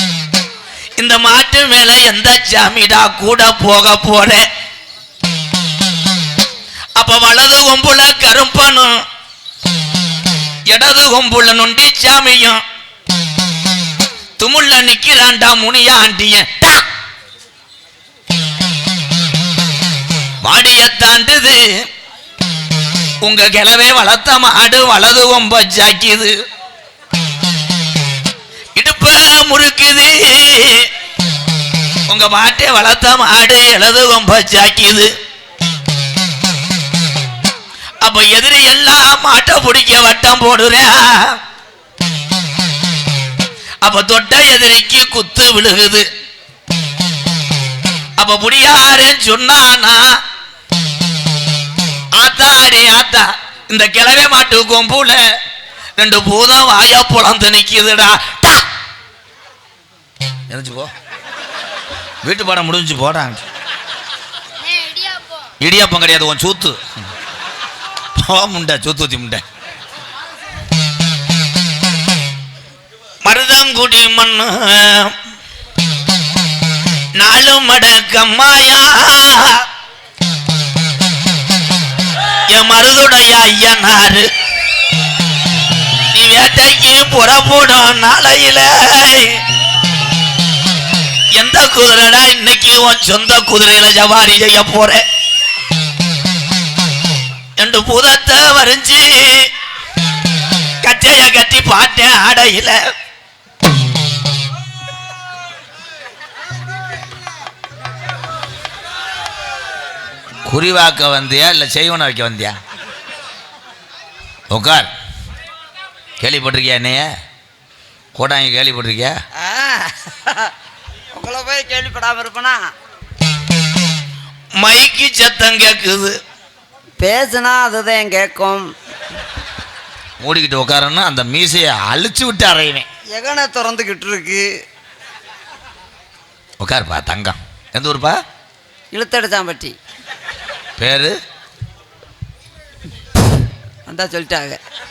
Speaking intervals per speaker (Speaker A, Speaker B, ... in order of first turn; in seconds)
Speaker A: 1.0-4.5, 7.0-8.9, 10.7-12.6, 14.4-16.8, 20.4-21.6, 23.2-26.3, 28.8-30.9, 32.1-35.1, 38.0-41.4, 43.8-46.1, 48.2-50.0, 52.1-55.2, 56.0-58.6, 60.5-60.9, 62.2-63.4, 65.6-66.8, 68.2-69.4, 73.2-75.2, 77.2-79.7, 82.5-84.3, 86.1-89.4, 91.3-95.0, 97.6-99.5, 100.8-102.8, 110.5-112.6, 114.5-114.9, 116.2-117.0, 118.2-119.2, 124.6-126.2, 130.2-132.9, 136.6-138.2, 140.8-141.2
Speaker B: 119.4-120.5, 121.1-122.6, 127.0-128.7, 133.1-134.5, 138.9-139.8, 143.9-144.6